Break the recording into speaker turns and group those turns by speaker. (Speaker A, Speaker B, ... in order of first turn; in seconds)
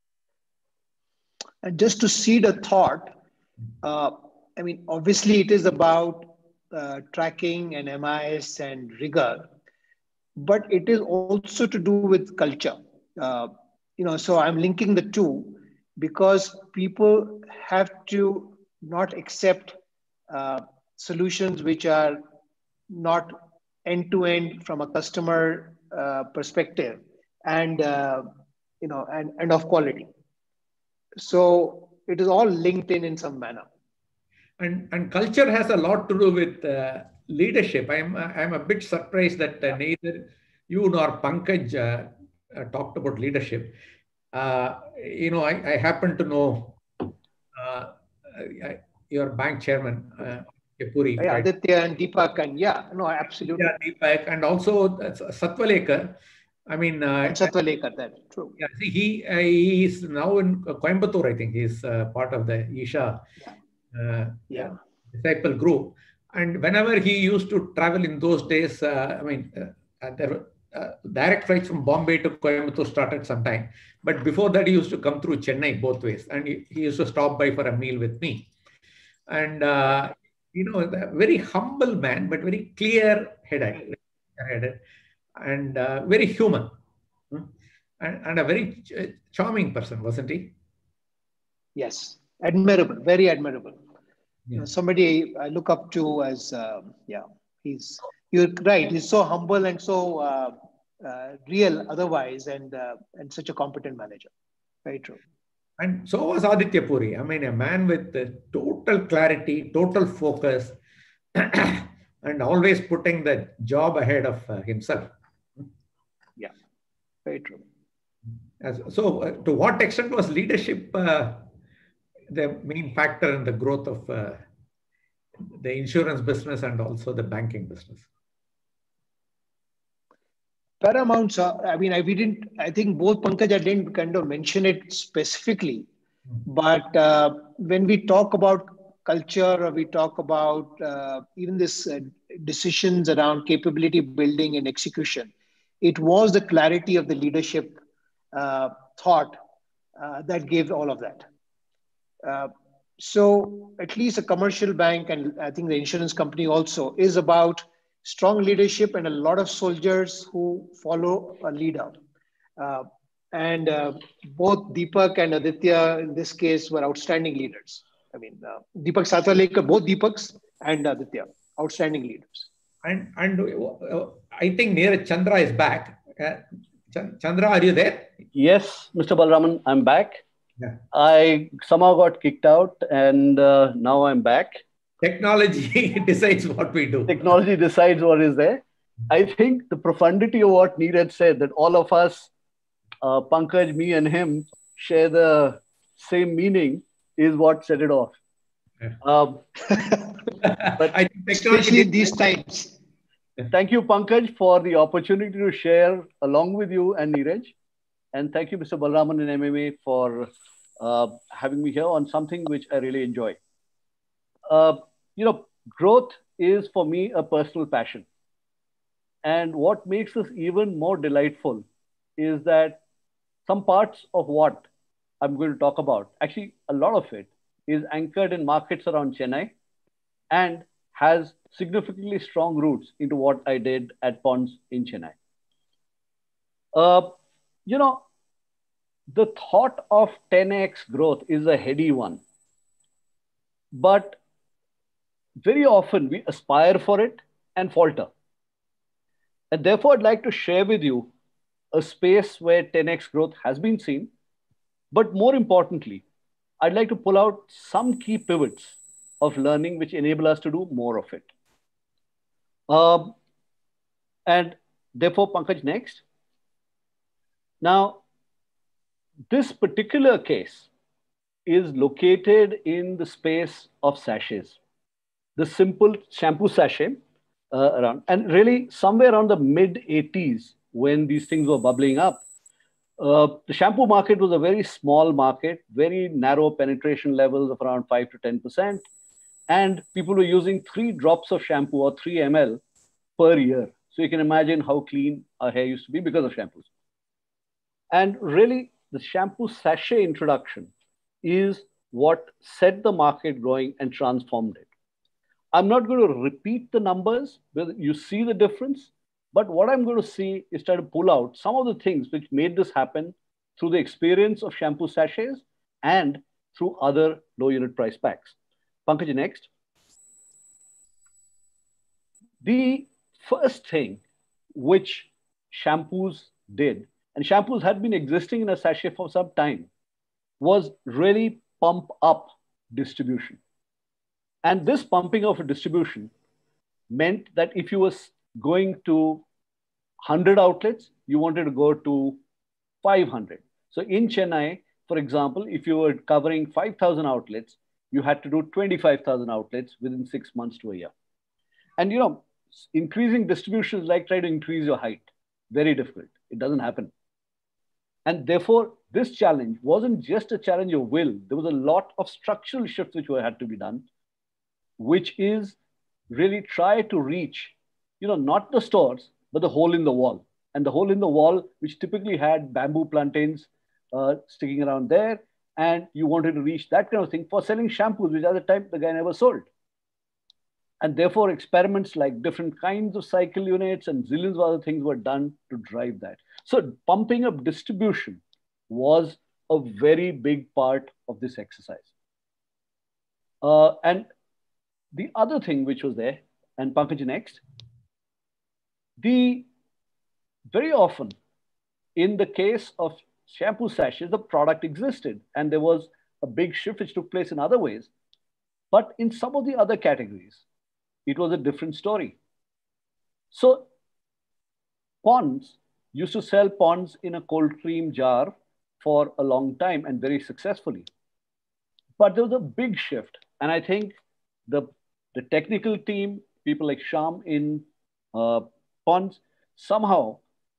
Speaker A: 1.6-3.1, 3.8-9.5, 10.3-19.8, 20.3-22.2, 22.9-28.3, 28.8-30.1, 31.2-33.6, 51.2-53.7, 57.2-58.6, 64.5-64.8, 91.7-93.8, 94.5-104.3, 104.8-105.2, 117.2-117.6, 130.8-135.9, 136.4-147.8, 148.3-149.4, 150.0-151.3, 152.2-162.0, 162.6-172.5, 201.3-202.7
Speaker B: 34.6-43.8, 44.3-46.8, 47.5-51.5, 53.5-57.5, 58.6-63.2, 63.9-78.5, 79.3-84.8, 85.4-86.7, 87.3-90.5, 105.8-110.8, 111.3-115.6, 118.6-121.5, 122.3-124.4, 125.5-128.0, 172.8-178.1, 185.0-187.3, 200.4-202.1
Speaker C: 178.3-180.2, 180.9-184.6, 187.1-192.3, 193.0-198.2, 199.0-199.5, 203.5-207.5, 208.1-213.4, 214.5-218.1, 219.2-221.7, 222.2-222.8, 223.4-224.7, 225.2-229.5, 230.3-235.1, 236.7-238.0, 239.1-242.2, 243.7-244.2, 245.4-248.1, 249.5-251.1, 251.7-254.1, 254.9-256.0, 256.6-261.3, 262.7-263.1, 264.2-266.0, 267.6-268.0, 269.3-270.7, 271.4-274.6, 275.4-277.0, 277.5-282.2, 283.0-288.8, 289.5-292.6, 293.2-296.7, 297.9-300.7, 301.2-304.6, 305.5-318.3, 318.9-319.5, 322.4-324.0, 324.5-329.7, 330.4-333.4, 334.4-336.1, 336.9-339.2, 340.0-342.2, 342.8-350.9, 351.8-356.9, 358.1-363.9, 364.8-365.6, 366.1-379.5, 380.8-391.9, 393.4-394.1, 394.9-397.4, 399.0-399.5, 400.5-401.1, 401.9-407.9, 408.7-410.4, 411.1-412.2, 413.3-413.7, 415.0-420.9, 422.0-423.9, 424.5-430.2